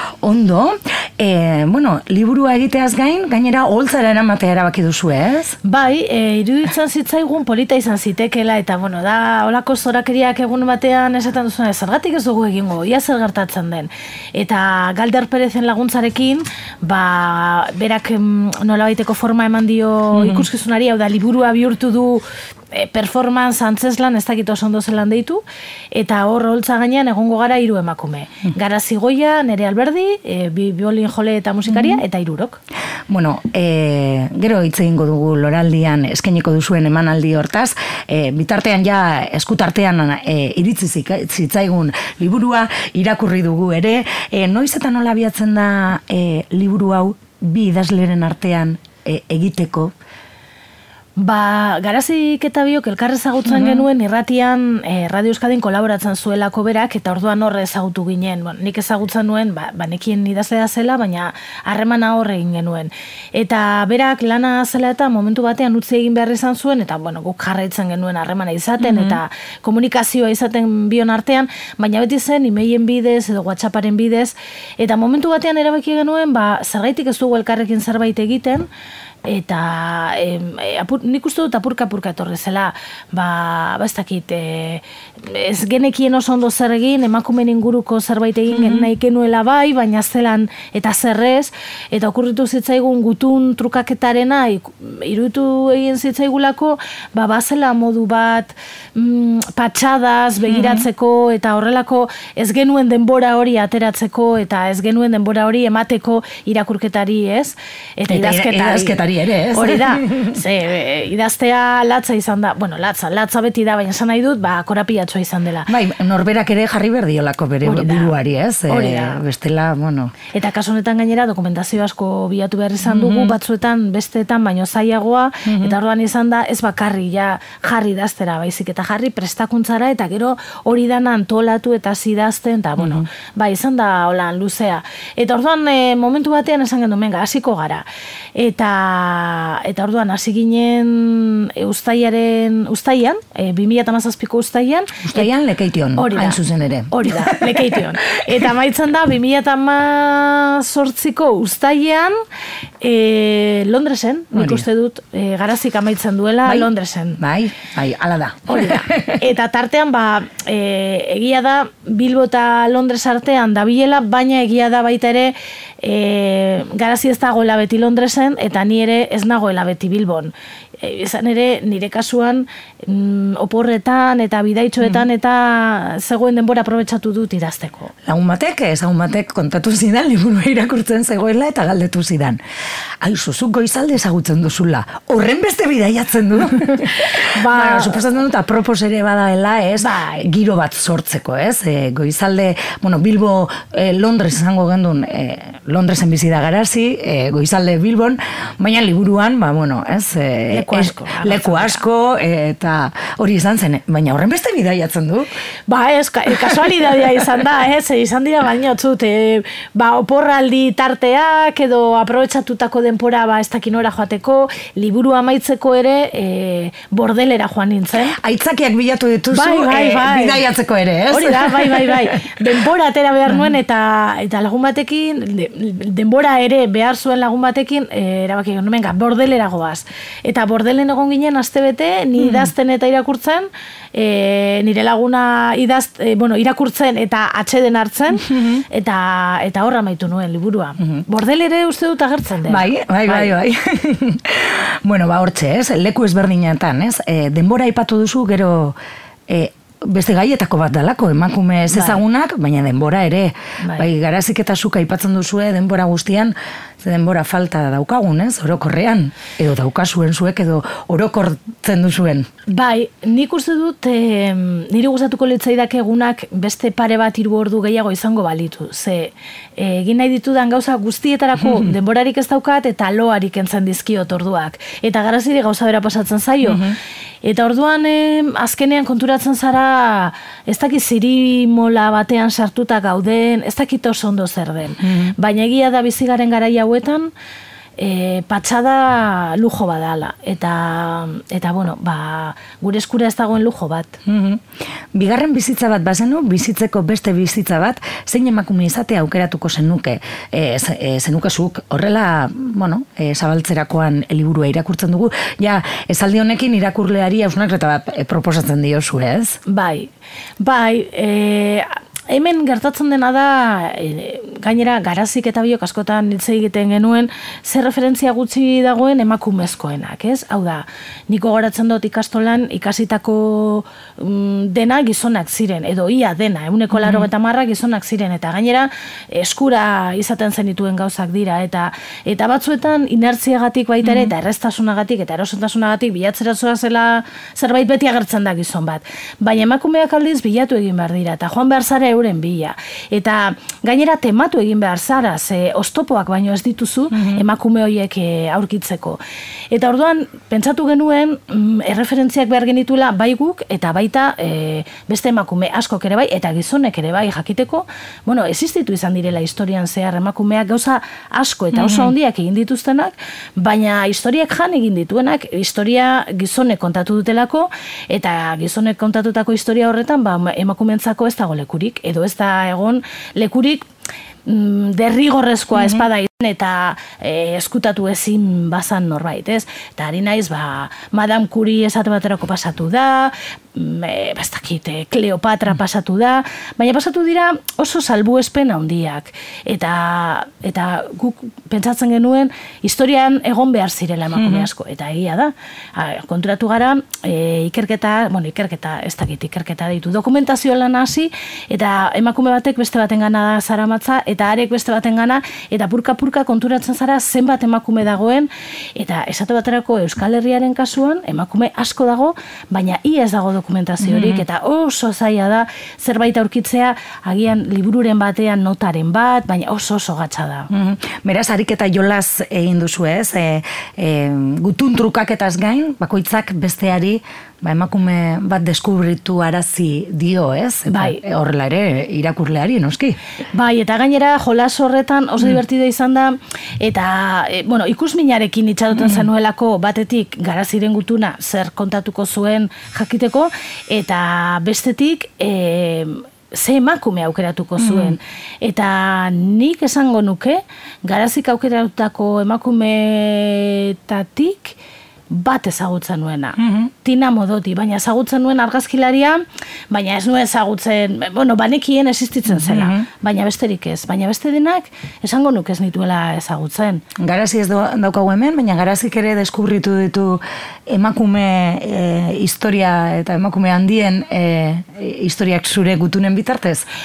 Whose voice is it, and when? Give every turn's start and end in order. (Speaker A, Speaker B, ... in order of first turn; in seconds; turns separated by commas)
Speaker A: 0.2-5.6, Speaker B: 5.6-32.6, Speaker A: 20.1-20.4, Speaker A: 31.7-32.0, Speaker A: 33.1-50.0, Speaker B: 51.2-78.7, Speaker A: 53.5-53.9, Speaker A: 68.8-69.2, Speaker B: 79.2-109.0, Speaker A: 88.5-88.9, Speaker A: 100.5-100.9, Speaker A: 108.1-110.4, Speaker B: 109.5-115.7, Speaker A: 115.7-120.1, Speaker B: 117.6-118.1, Speaker B: 118.7-119.2, Speaker B: 120.3-145.3, Speaker A: 122.8-123.4, Speaker A: 125.5-125.8, Speaker A: 132.8-133.1, Speaker A: 145.0-148.3, Speaker B: 146.0-146.4, Speaker B: 146.9-152.2, Speaker B: 152.8-157.2, Speaker A: 154.3-154.7, Speaker A: 156.4-159.2, Speaker B: 158.5-177.9, Speaker A: 178.0-182.4, Speaker A: 183.0-205.3, Speaker B: 187.2-188.1, Speaker B: 189.8-190.3, Speaker B: 200.5-201.8, Speaker B: 205.7-218.2, Speaker A: 218.1-222.5, Speaker B: 219.3-220.4, Speaker B: 221.1-243.3, Speaker A: 232.2-232.5, Speaker A: 238.2-238.7, Speaker A: 242.5-248.8, Speaker A: 249.3-262.3, Speaker B: 251.7-252.0, Speaker B: 253.6-253.9, Speaker B: 262.5-287.1, Speaker A: 271.4-271.7, Speaker A: 276.4-276.8, Speaker A: 284.8-285.1, Speaker B: 287.8-294.0, Speaker A: 294.1-309.4, Speaker B: 309.5-373.6, Speaker A: 326.7-327.1, Speaker A: 333.8-334.1, Speaker A: 346.9-347.2, Speaker A: 361.5-361.9, Speaker B: 374.3-420.5, Speaker A: 375.5-375.9, Speaker A: 394.1-394.5, Speaker A: 413.8-414.2, Speaker A: 420.5-433.0, Speaker B: 430.7-431.0, Speaker B: 433.3-454.6, Speaker A: 447.6-448.0, Speaker B: 455.1-466.8, Speaker A: 456.4-456.7, Speaker A: 462.3-462.9, Speaker A: 467.0-476.7